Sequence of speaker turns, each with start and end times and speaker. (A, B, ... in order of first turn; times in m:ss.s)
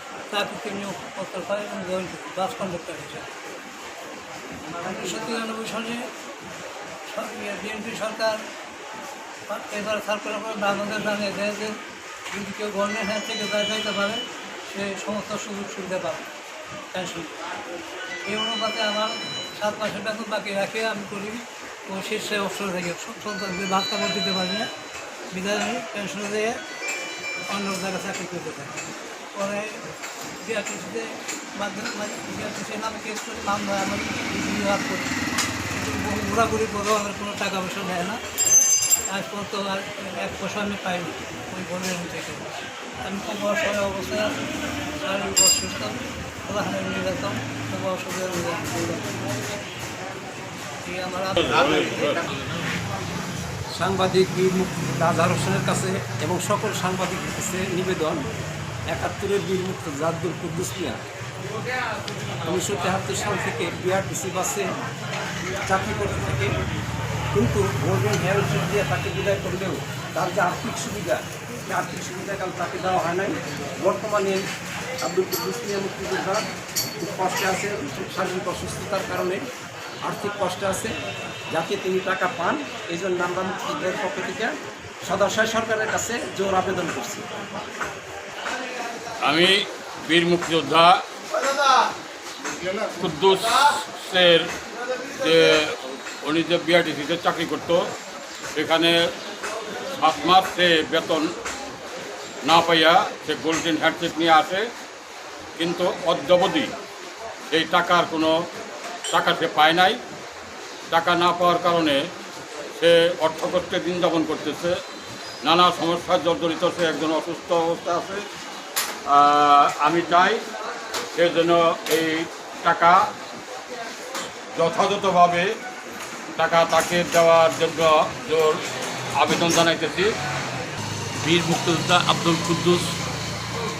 0:00.3-0:03.5 A
0:04.8-0:06.0 A
0:07.1-0:08.4 A
0:09.5-0:11.8 A
0:12.3-0:16.3 A
0:16.9-0:17.4 A
0:18.2-0:24.7 A
0:25.3-0:26.6 A
0:27.5-0:28.8 A
0:29.3-0:29.8 A
0:30.4-0:35.1 A
0:35.7-0:38.2 A
0:39.1-0:44.4 A
0:45.0-0:49.5 A
0:50.8-0:52.2 A
0:51.4-0:52.2 B
0:51.8-0:52.3 C
0:53.8-0:58.2 D
0:58.9-1:01.0 D
1:02.4-1:04.7 D
1:05.6-1:06.5 D
1:07.3-1:14.4 D
1:15.0-1:16.4 D
1:17.0-1:19.4 D
1:20.0-1:20.9 D
1:21.5-1:24.5 D
1:25.0-1:27.3 D
1:29.2-1:31.0 B
1:33.0-1:34.5 B
1:35.2-1:37.8 B
1:38.6-1:38.9 B
1:40.0-1:41.2 B
1:42.4-1:44.6 B
1:45.6-1:46.7 B
1:47.5-1:48.3 B
1:49.1-1:50.0 B
1:50.9-1:52.0 B
1:52.8-1:54.7 B
1:55.4-1:58.2 B
1:59.1-2:00.4 B
2:01.1-2:03.0 B
2:04.6-2:05.5 B
2:06.4-2:08.6 B
2:09.2-2:10.1 B
2:11.2-2:12.9 C